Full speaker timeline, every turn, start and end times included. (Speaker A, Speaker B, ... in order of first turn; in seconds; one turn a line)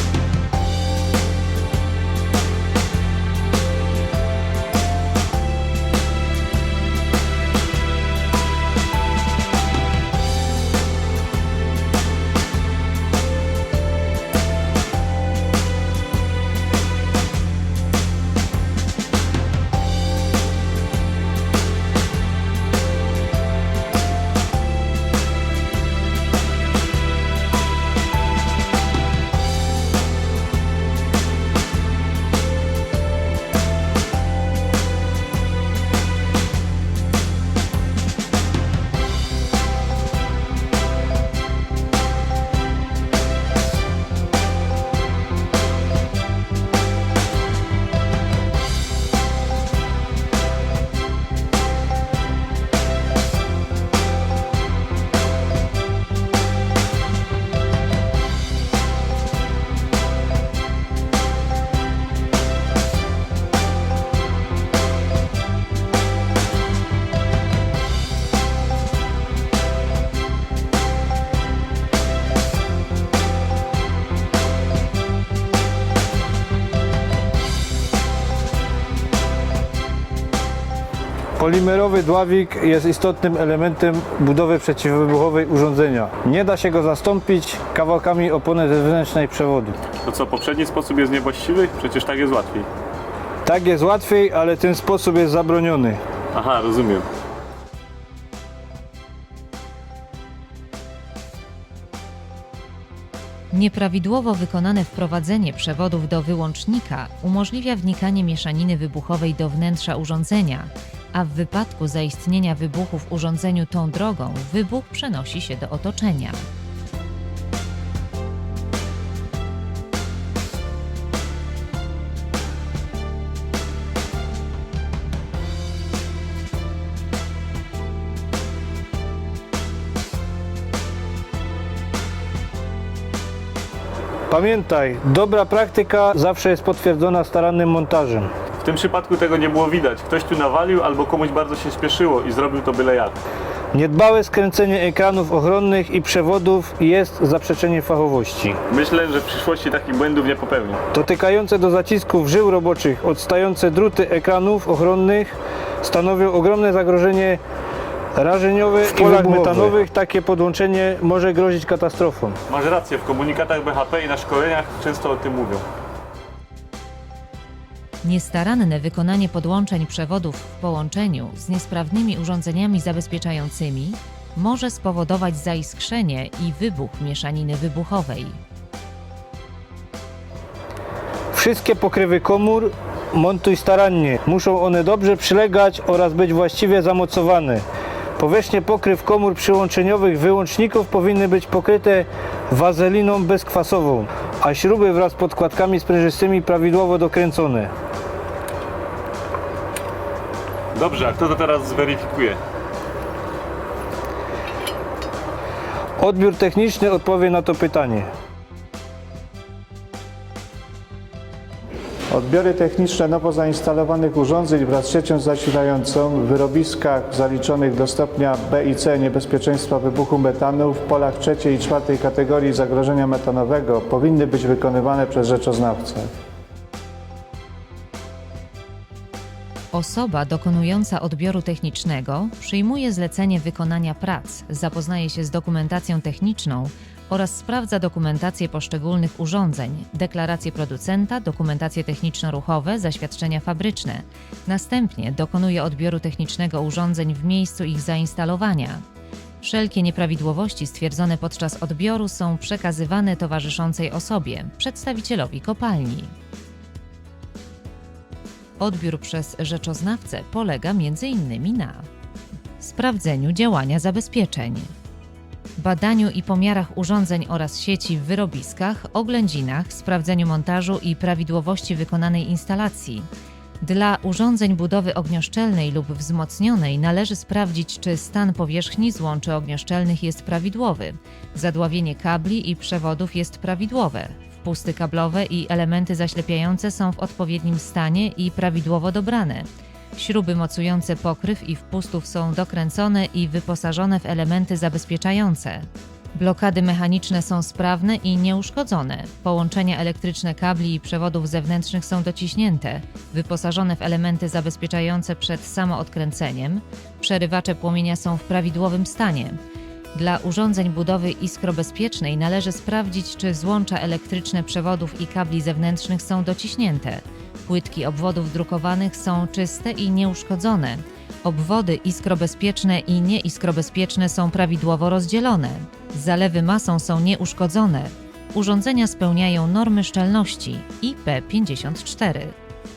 Speaker A: 81.4-89.8
Speaker B: 90.0-92.7
Speaker A: 93.5-96.0
Speaker B: 96.3-97.1
Speaker C: 103.5-116.5
Speaker A: 134.3-138.3
Speaker B: 138.6-143.2
Speaker A: 143.7-148.6
Speaker B: 148.7-150.8
Speaker A: 150.9-157.4
Speaker A: 158.2-162.4
Speaker B: 158.9-159.7
Speaker B: 162.5-165.7
Speaker C: 168.0-178.4
Speaker A: 181.3-187.6
Speaker A: 188.2-197.7
Speaker B: 200.8-202.4
Speaker A: 206.0-208.1
Speaker D: 212.1-226.1
Speaker C: 229.7-248.8
Speaker C: 249.4-256.1
Speaker C: 258.6-261.9
Speaker C: 262.6-264.7
Speaker C: 265.6-273.1
Speaker C: 273.6-309.4
Speaker C: 309.9-332.4